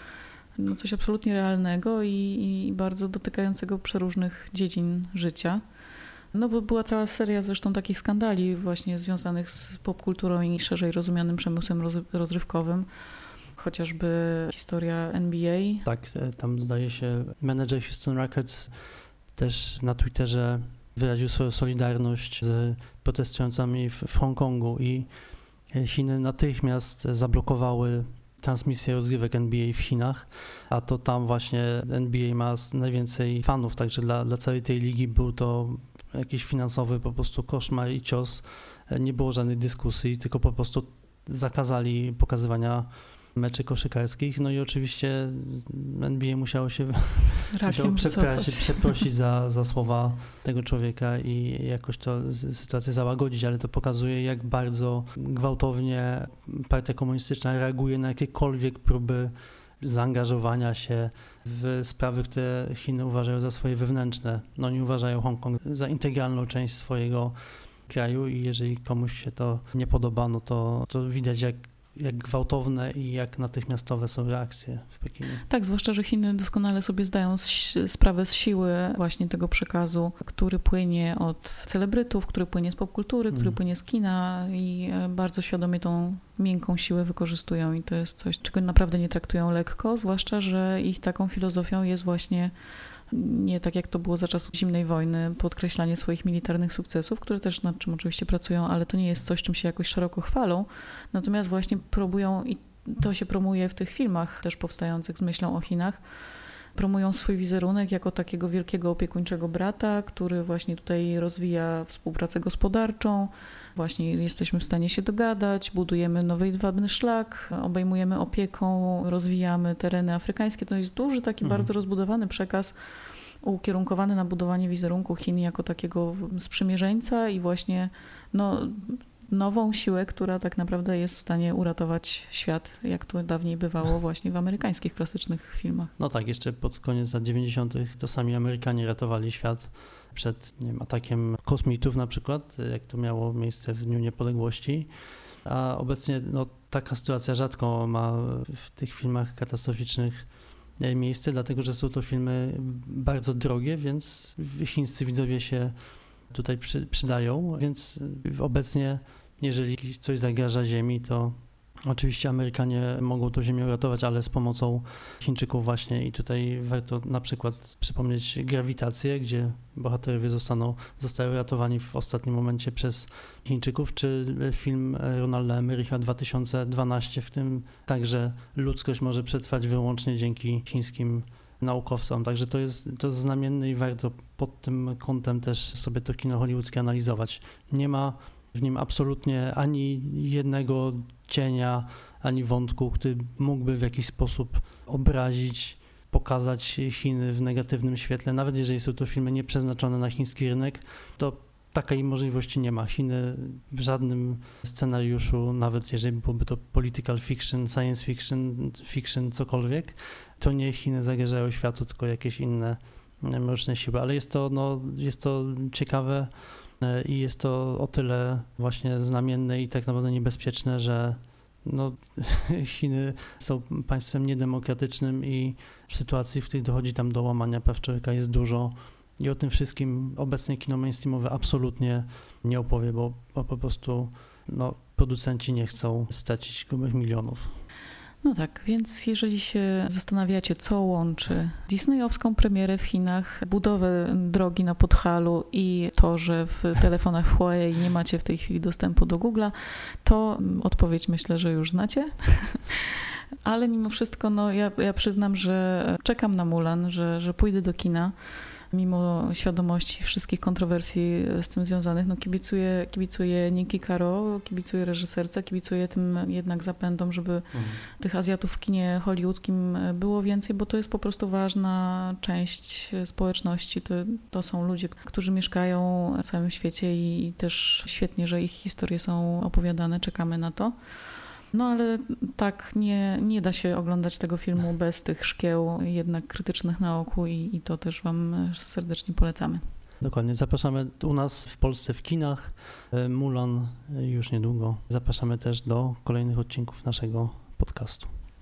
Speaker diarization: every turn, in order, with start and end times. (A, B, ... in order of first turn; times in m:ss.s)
0:00.6-0:05.6 A
0:06.3-0:12.9 A
0:13.6-0:15.9 A
0:15.9-0:18.8 B
0:19.4-0:25.1 B
0:25.7-1:07.3 B
0:47.5-0:49.0 A
1:07.9-1:15.4 B
1:15.4-1:32.5 A
1:33.1-1:46.0 A
1:46.8-2:02.8 A
2:01.4-2:01.7 B
2:03.4-2:15.9 A
2:16.0-2:24.9 B
2:25.4-2:30.3 B
2:30.8-2:35.7 B
2:36.3-2:41.4 B
2:41.9-3:57.5 B
3:58.2-4:18.1 A
4:18.7-4:40.7 A
4:27.5-4:27.8 B
4:41.5-4:49.6 A
4:50.0-4:58.1 B